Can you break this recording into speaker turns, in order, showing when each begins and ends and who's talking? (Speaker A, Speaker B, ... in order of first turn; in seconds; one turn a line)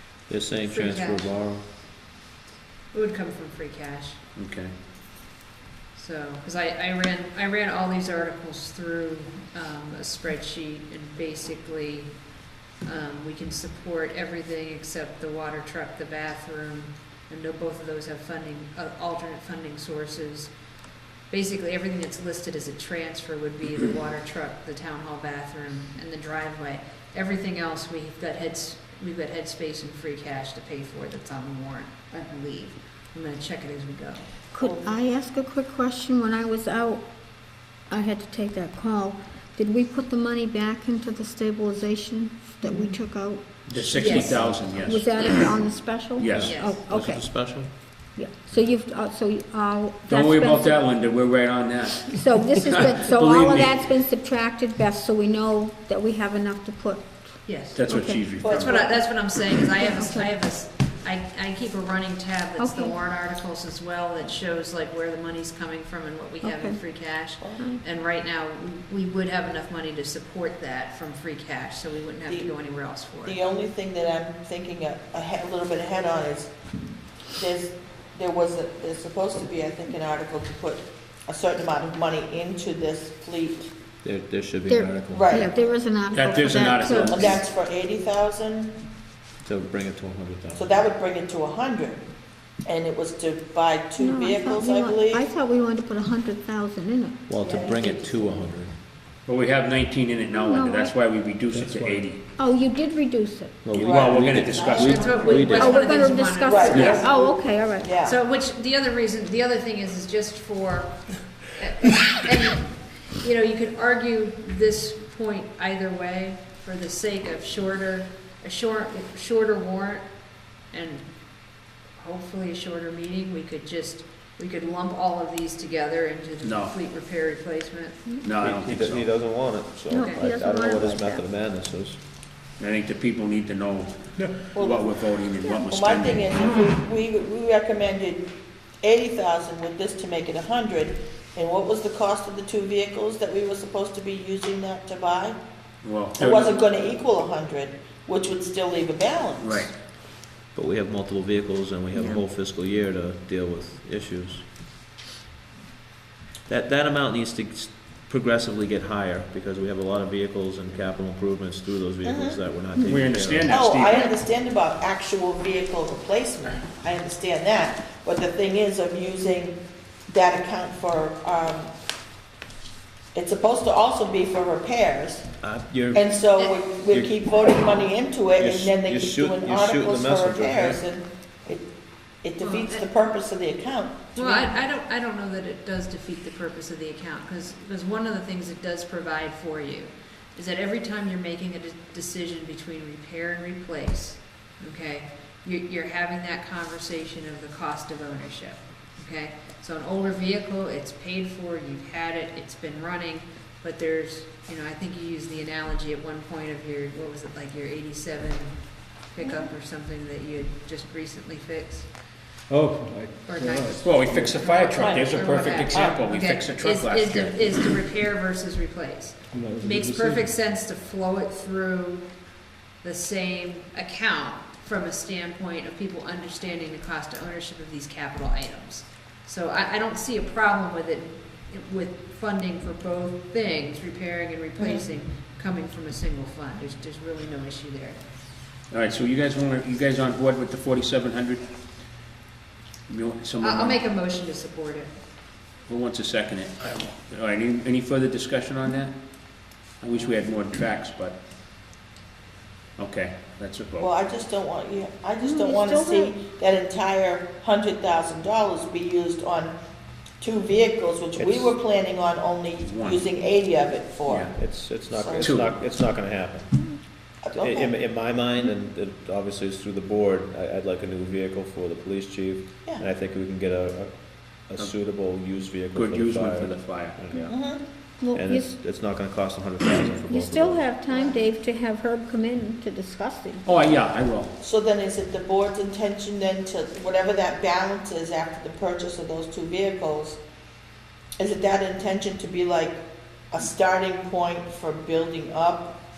Speaker A: 0.3-1.6
Speaker B: 0.7-1.3
Speaker B: 2.9-4.3
Speaker C: 4.3-4.7
Speaker B: 6.0-12.1
Speaker B: 12.8-20.5
Speaker B: 21.3-34.2
Speaker D: 34.5-37.0
Speaker E: 34.6-34.9
Speaker D: 37.9-47.3
Speaker C: 43.7-45.5
Speaker A: 44.1-44.6
Speaker B: 44.9-45.3
Speaker C: 46.2-46.5
Speaker A: 46.3-47.7
Speaker B: 46.5-46.8
Speaker D: 48.1-50.8
Speaker C: 50.1-52.1
Speaker D: 52.1-58.2
Speaker C: 52.7-53.7
Speaker B: 57.5-73.4
Speaker C: 57.7-58.6
Speaker E: 58.4-59.0
Speaker D: 59.8-60.3
Speaker D: 62.6-63.0
Speaker D: 66.4-66.8
Speaker E: 67.3-67.6
Speaker E: 73.2-76.5
Speaker E: 77.3-83.7
Speaker A: 84.0-85.4
Speaker D: 84.7-87.2
Speaker E: 85.1-85.5
Speaker C: 86.1-87.4
Speaker B: 86.5-87.3
Speaker E: 86.9-88.7
Speaker A: 89.4-90.7
Speaker E: 90.5-92.0
Speaker E: 92.6-95.3
Speaker D: 94.0-97.2
Speaker A: 97.3-98.7
Speaker B: 97.4-98.1
Speaker C: 99.2-102.2
Speaker D: 100.3-100.9
Speaker A: 101.5-102.0
Speaker F: 101.6-102.0
Speaker D: 102.3-103.6
Speaker A: 103.6-105.9
Speaker C: 103.7-105.0
Speaker E: 103.8-105.3
Speaker B: 103.9-107.1
Speaker D: 105.4-107.9
Speaker E: 106.5-108.2
Speaker B: 108.0-111.0
Speaker B: 111.5-120.0
Speaker B: 120.7-121.1
Speaker B: 122.0-128.5
Speaker C: 126.4-126.7
Speaker C: 128.2-129.0
Speaker A: 128.4-132.0
Speaker D: 129.9-131.2
Speaker C: 132.6-134.0
Speaker E: 134.5-134.9
Speaker C: 134.6-136.2
Speaker E: 135.5-138.3
Speaker E: 138.8-145.4
Speaker C: 145.8-146.3
Speaker E: 146.2-149.7
Speaker B: 146.2-146.5
Speaker C: 149.4-149.7
Speaker A: 150.5-154.5
Speaker A: 156.5-163.5
Speaker E: 162.0-162.4
Speaker C: 162.9-164.0
Speaker E: 163.4-171.7
Speaker E: 173.1-175.3
Speaker A: 175.4-176.1
Speaker E: 175.9-181.7
Speaker A: 176.9-177.2
Speaker A: 178.4-180.8
Speaker E: 182.2-184.5
Speaker B: 182.4-182.9
Speaker B: 184.2-211.9
Speaker F: 212.5-214.7
Speaker B: 213.2-222.1
Speaker C: 213.8-217.3
Speaker E: 214.8-215.2
Speaker E: 215.7-216.0
Speaker F: 219.3-220.3
Speaker B: 222.8-238.0
Speaker E: 234.6-234.8
Speaker C: 238.7-241.4
Speaker C: 242.9-243.8
Speaker B: 243.4-244.9
Speaker C: 245.7-249.0
Speaker C: 249.8-251.2
Speaker C: 252.8-253.9
Speaker E: 253.8-259.5
Speaker D: 255.2-256.1
Speaker E: 260.2-264.3
Speaker A: 261.1-261.6
Speaker C: 262.6-263.0
Speaker C: 264.1-264.3
Speaker A: 264.4-266.8
Speaker E: 264.9-265.4
Speaker E: 267.2-267.8
Speaker A: 267.4-280.6
Speaker C: 275.7-277.1
Speaker E: 277.2-277.6
Speaker D: 278.0-278.5
Speaker D: 280.1-283.4
Speaker E: 280.9-281.2
Speaker C: 283.4-284.4
Speaker E: 284.4-290.2
Speaker E: 291.2-295.7